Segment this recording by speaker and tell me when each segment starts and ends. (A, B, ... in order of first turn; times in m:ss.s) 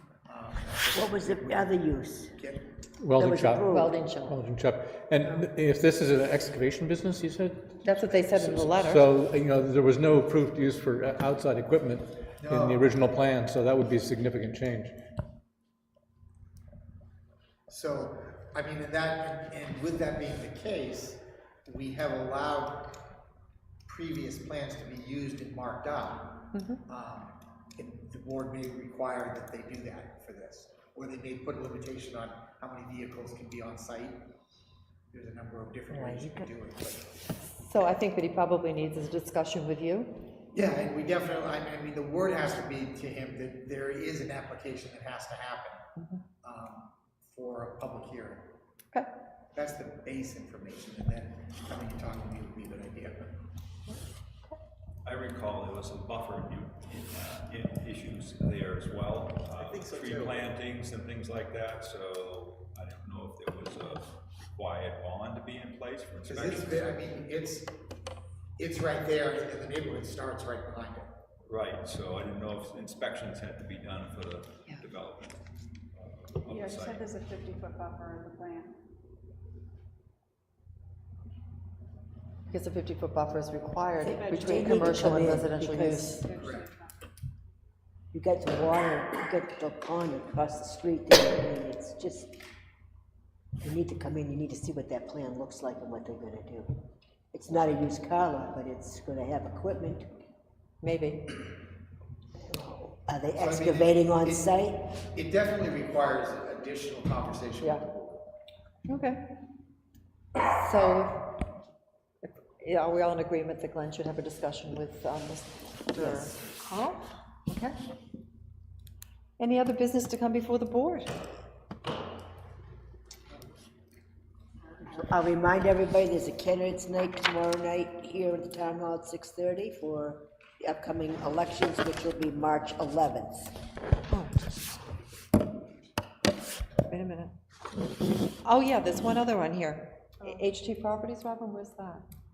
0:00.3-0:02.7 A
0:00.9-0:02.3 B
0:03.0-0:14.9 C
0:03.1-0:04.0 B
0:03.7-0:04.4 D
0:07.8-0:09.0 D
0:12.4-0:12.8 A
0:17.7-0:22.9 A
0:23.8-0:34.2 A
0:26.5-0:26.8 D
0:35.1-0:37.1 A
0:35.9-0:36.5 B
0:37.4-0:40.1 D
0:40.5-0:45.8 A
0:46.4-0:48.5 A
0:49.5-0:53.4 A
0:55.0-1:06.9 E
0:59.5-1:00.4 A
1:06.2-1:07.7 A
1:08.6-1:11.1 A
1:11.4-1:15.4 E
1:15.9-1:17.1 E
1:16.5-1:18.7 F
1:22.5-1:26.2 D
1:24.1-1:26.2 B
1:24.1-1:25.3 F
1:26.1-1:26.9 F
1:26.3-1:26.7 A
1:28.1-1:32.3 B
1:33.6-1:36.8 B
1:37.3-1:40.1 B
1:40.8-1:41.3 D
1:42.5-1:44.8 B
1:43.4-1:44.5 A
1:45.0-1:48.2 A
1:48.8-1:49.2 D
1:50.5-1:51.2 D
1:52.2-1:57.7 D
1:56.0-1:56.2 B
1:59.4-2:01.1 D
2:04.9-2:13.5 B
2:14.1-2:14.4 D
2:16.8-2:17.3 D
2:18.4-2:22.0 D